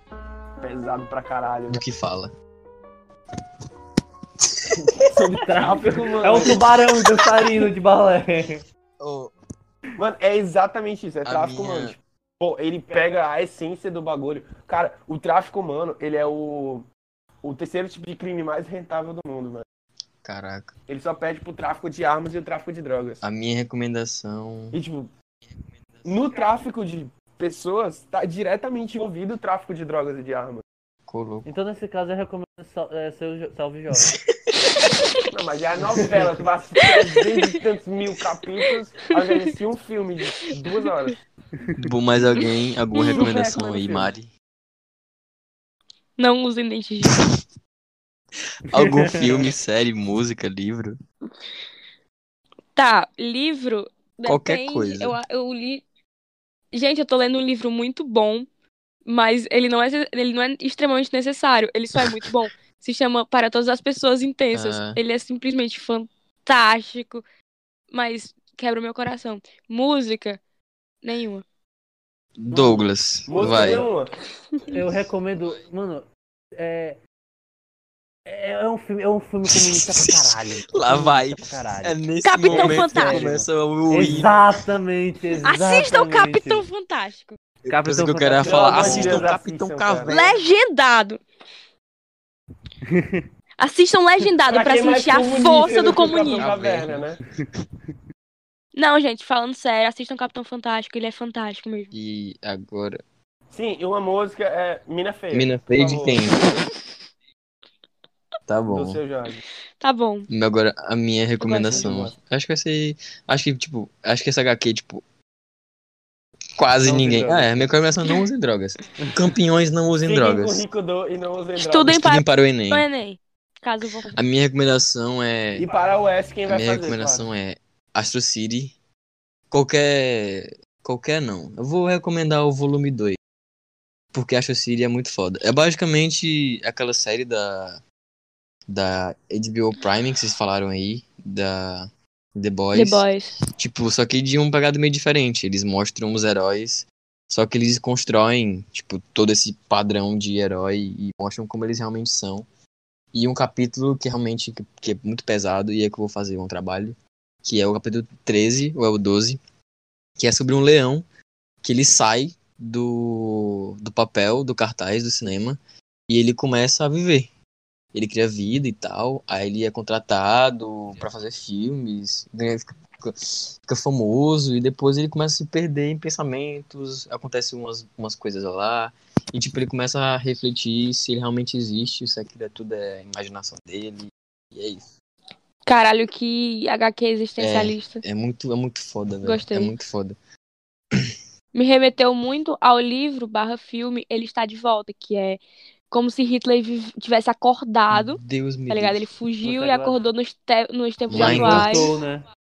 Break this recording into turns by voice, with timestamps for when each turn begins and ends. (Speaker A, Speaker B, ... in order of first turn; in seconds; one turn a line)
Speaker A: 0.6-1.8
Speaker B: 1.7-2.3
Speaker A: 5.0-6.7
Speaker C: 5.4-8.6
Speaker B: 9.0-9.3
Speaker A: 10.0-16.9
Speaker B: 11.2-12.0
Speaker A: 17.4-19.6
Speaker B: 20.2-20.7
Speaker A: 20.9-23.2
Speaker B: 23.2-24.8
Speaker A: 24.7-25.1
Speaker B: 25.5-26.2
Speaker A: 26.1-30.6
Speaker B: 31.1-31.5
Speaker C: 31.4-34.1
Speaker B: 33.9-34.5
Speaker A: 35.3-41.2
Speaker C: 35.9-36.2
Speaker D: 39.2-39.5
Speaker C: 41.6-42.5
Speaker B: 41.8-44.3
Speaker D: 42.9-43.2
Speaker C: 43.1-44.0
Speaker A: 43.2-44.1
Speaker D: 46.2-47.1
Speaker B: 47.1-47.4
Speaker B: 48.7-50.9
Speaker C: 48.7-49.5
Speaker D: 52.7-55.8
Speaker B: 54.2-55.2
Speaker D: 56.7-58.5
Speaker D: 59.0-67.2
Speaker B: 64.5-65.0
Speaker D: 67.9-70.4
Speaker D: 71.0-71.4
Speaker B: 72.4-73.9
Speaker A: 73.3-74.1
Speaker C: 74.7-77.0
Speaker C: 78.2-81.9
Speaker B: 79.5-84.5
Speaker D: 82.2-83.3
Speaker C: 82.5-86.7
Speaker D: 85.4-87.4
Speaker B: 87.6-90.3
Speaker C: 87.7-89.3
Speaker A: 88.4-90.2
Speaker D: 90.1-91.2
Speaker C: 92.8-93.2
Speaker D: 93.6-96.4
Speaker A: 94.5-97.2
Speaker B: 95.7-97.1
Speaker D: 98.7-101.9
Speaker B: 101.9-103.0
Speaker A: 103.5-106.3
Speaker B: 105.3-106.4
Speaker B: 108.5-109.0
Speaker A: 108.7-109.4
Speaker D: 109.8-110.3
Speaker B: 110.3-115.0
Speaker D: 111.4-111.8
Speaker A: 111.6-112.2
Speaker B: 116.6-120.6
Speaker A: 116.8-117.7
Speaker A: 120.0-121.9
Speaker D: 121.6-124.2
Speaker B: 121.8-122.9
Speaker B: 124.1-125.7
Speaker A: 125.6-127.3
Speaker B: 126.5-128.7
Speaker B: 129.5-133.2
Speaker B: 134.1-137.8
Speaker B: 138.7-152.4
Speaker D: 142.7-143.4
Speaker B: 153.1-159.4
Speaker B: 160.2-161.1
Speaker B: 161.6-167.3
Speaker B: 167.9-184.9
Speaker D: 185.7-188.0
Speaker B: 187.4-190.1
Speaker D: 189.2-189.7
Speaker D: 191.5-201.9
Speaker B: 197.9-199.1
Speaker C: 199.4-200.0
Speaker B: 201.1-201.9
Speaker C: 201.1-202.2